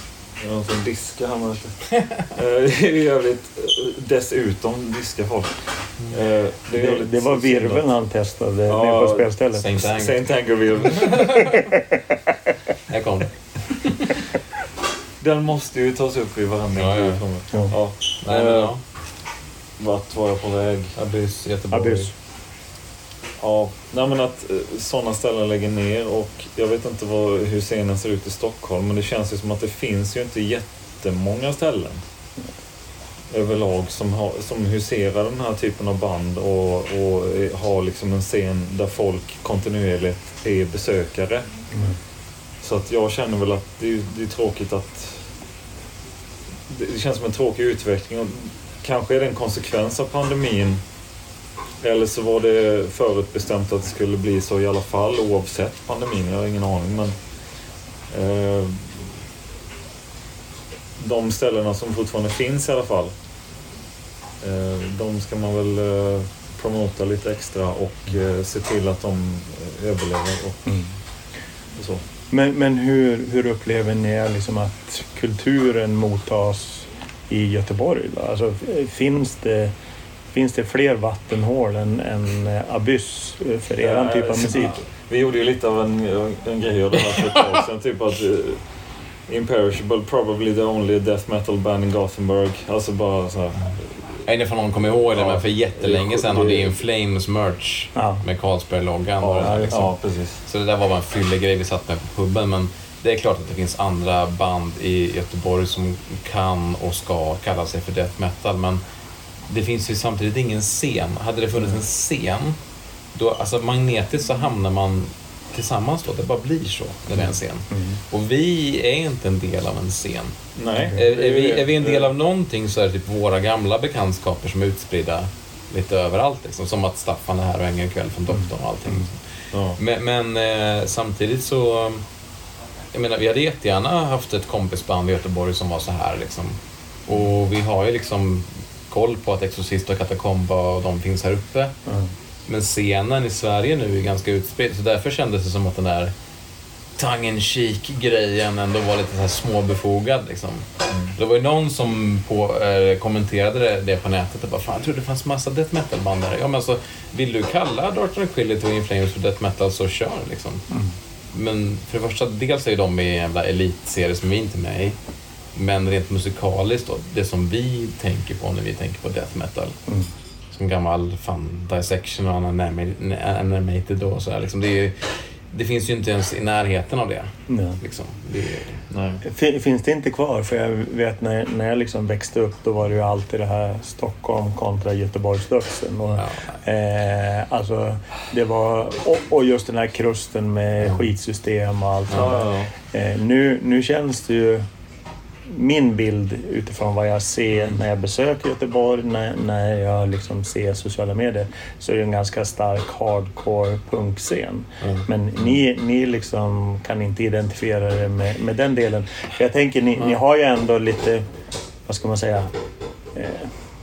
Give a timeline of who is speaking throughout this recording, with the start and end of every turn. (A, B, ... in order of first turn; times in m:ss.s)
0:00.4-0:07.9 A
0:06.7-0:09.9 B
0:08.7-0:11.5 A
0:09.5-0:10.2 C
0:10.8-0:11.6 C
0:11.4-0:12.3 B
0:12.9-0:14.2 C
0:15.2-0:18.7 A
0:16.8-0:17.2 C
0:18.2-0:18.8 C
0:19.8-0:21.0 A
0:21.0-0:22.1 C
0:21.7-0:22.1 B
0:23.4-0:32.0 A
0:33.3-0:41.5 A
0:41.7-0:42.0 B
0:42.6-0:45.3 A
0:46.7-0:50.8 A
0:51.8-0:57.1 A
0:58.1-0:59.1 A
1:01.0-1:03.1 A
1:04.4-1:10.8 A
1:10.6-1:10.9 B
1:11.8-1:12.0 A
1:12.3-1:19.7 B
1:20.3-1:24.8 B
1:23.8-1:28.6 A
1:27.1-1:27.4 C
1:29.3-1:34.2 A
1:34.2-1:39.9 C
1:35.1-1:36.7 A
1:37.9-1:38.2 B
1:39.2-1:40.4 A
1:39.4-1:39.8 B
1:40.4-1:48.8 C
1:49.5-1:52.6 C
1:53.1-2:00.4 C
1:57.7-1:58.0 B
2:00.6-2:02.1 A
2:00.9-2:09.2 C
2:08.3-2:09.0 B
2:09.5-2:09.8 A
2:09.8-2:12.0 C
2:12.9-2:21.7 C
2:21.9-2:22.1 B
2:22.5-2:26.1 C
2:27.0-2:40.6 C
2:30.9-2:31.1 A
2:40.7-2:40.9 B
2:41.3-2:45.0 C
2:45.5-2:49.8 C
2:50.5-2:58.8 C
2:57.5-2:57.8 B
2:58.9-2:59.2 A
2:59.2-3:14.7 B
3:06.1-3:06.6 C
3:12.1-3:12.4 C
3:12.1-3:12.7 A
3:15.4-3:31.2 B
3:24.8-3:25.0 C
3:31.8-3:32.5 B
3:33.1-3:33.5 B